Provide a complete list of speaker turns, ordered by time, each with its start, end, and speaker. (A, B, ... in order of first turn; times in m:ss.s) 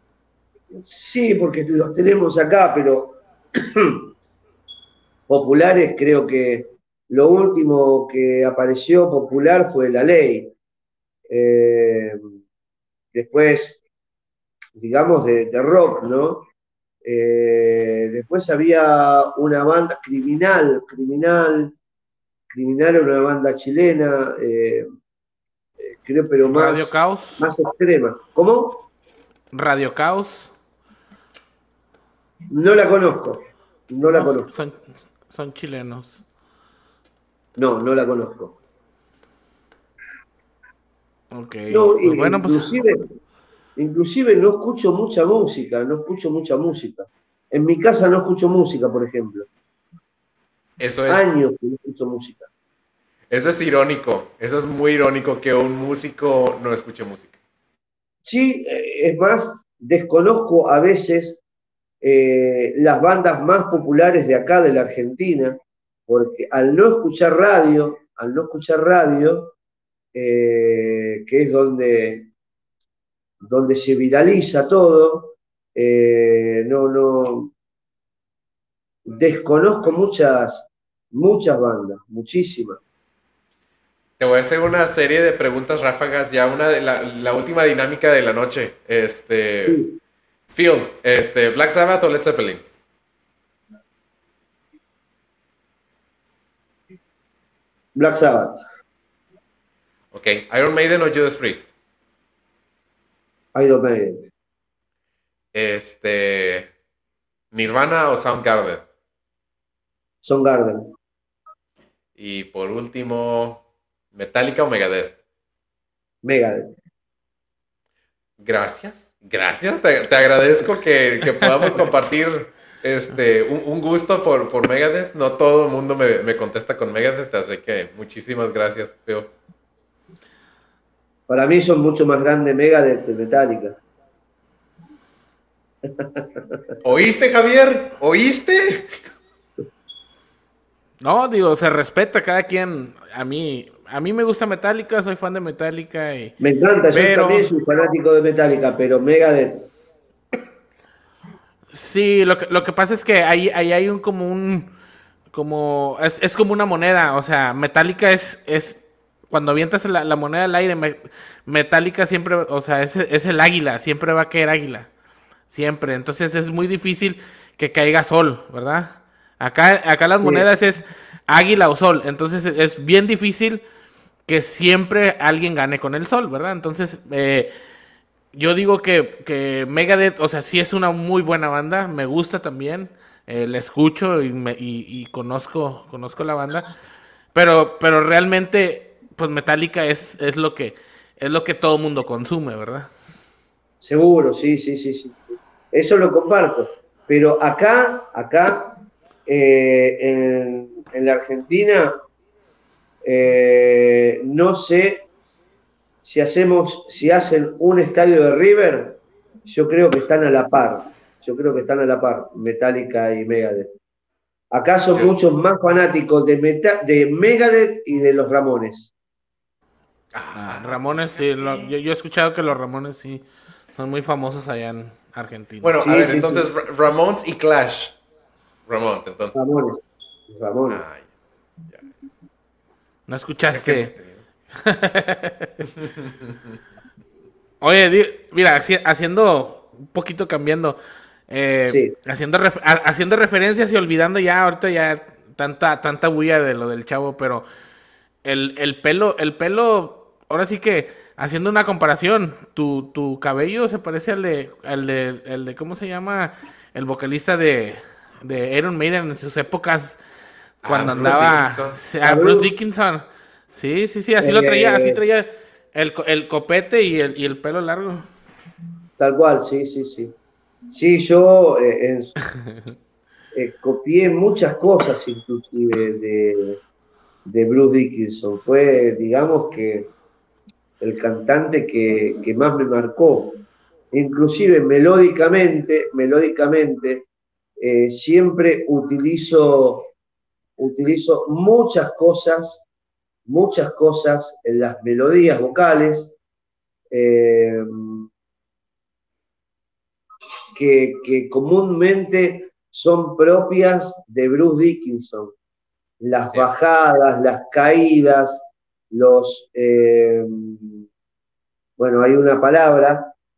0:00.7-0:04.1 A
0:05.3-0:10.5 A
0:11.3-0:12.2 A
0:13.1-0:13.8 A
0:14.8-0:16.5 A
0:17.0-0:21.8 A
0:22.5-0:24.9 A
0:25.8-0:28.8 A
0:26.5-0:27.5 B
0:29.5-0:30.5 B
0:32.5-0:34.5 A
0:34.0-0:36.2 B
0:37.6-0:38.6 A
0:41.3-0:42.8 B
0:41.7-0:43.0 A
0:43.8-0:49.5 A
0:50.8-0:51.3 C
0:51.1-0:52.5 A
0:53.3-0:57.3 C
0:58.2-1:01.4 A
1:02.0-1:09.5 A
1:10.1-1:12.3 A
1:13.4-1:17.5 A
1:19.0-1:22.8 A
1:24.2-1:29.8 C
1:29.7-1:30.0 A
1:30.5-1:32.6 C
1:37.9-1:38.6 A
1:40.1-1:41.7 C
1:43.5-1:44.3 A
1:45.5-1:46.7 C
1:47.5-1:48.8 C
1:50.2-1:50.9 A
1:52.2-1:53.6 C
1:54.1-1:55.1 C
1:56.2-1:56.7 A
1:58.4-2:09.3 C
2:11.3-2:13.8 A
2:15.9-2:16.7 A
2:16.8-2:18.9 C
2:21.0-2:26.3 B
2:26.4-2:29.7 A
2:26.9-2:27.5 B
2:31.7-2:34.7 B
2:35.3-2:44.9 B
2:45.5-2:53.6 B
2:54.3-2:57.5 B
2:58.3-3:06.7 B
3:07.3-3:12.9 B
3:13.8-3:22.0 A
3:23.0-3:25.1 A
3:26.0-3:33.7 A
3:34.5-3:38.9 A
3:40.1-3:41.7 C
3:40.3-3:43.2 B
3:43.8-3:46.0 B
3:45.6-3:48.0 C
3:45.8-3:46.5 A
3:48.7-3:49.4 C
3:49.4-3:50.8 A
3:50.7-3:51.1 C
3:53.1-3:53.9 B
3:53.5-3:54.2 C
3:54.5-3:55.7 B
3:55.8-3:56.3 C
3:57.6-4:00.8 B
4:01.3-4:07.4 B
4:01.7-4:01.9 A
4:08.2-4:20.0 B
4:20.6-4:21.8 C
4:20.6-4:28.0 B
4:22.0-4:22.5 A
4:24.2-4:25.1 A
4:29.0-4:30.2 A
4:30.7-4:32.1 A
4:33.3-4:36.6 A
4:37.2-4:39.9 A
4:40.8-4:43.4 A
4:43.9-4:47.1 A
4:47.6-4:49.9 A
4:50.6-4:52.6 A
4:53.2-4:56.1 A
4:56.9-4:58.1 A
5:00.5-5:05.3 A
5:06.0-5:10.8 A
5:11.8-5:13.1 A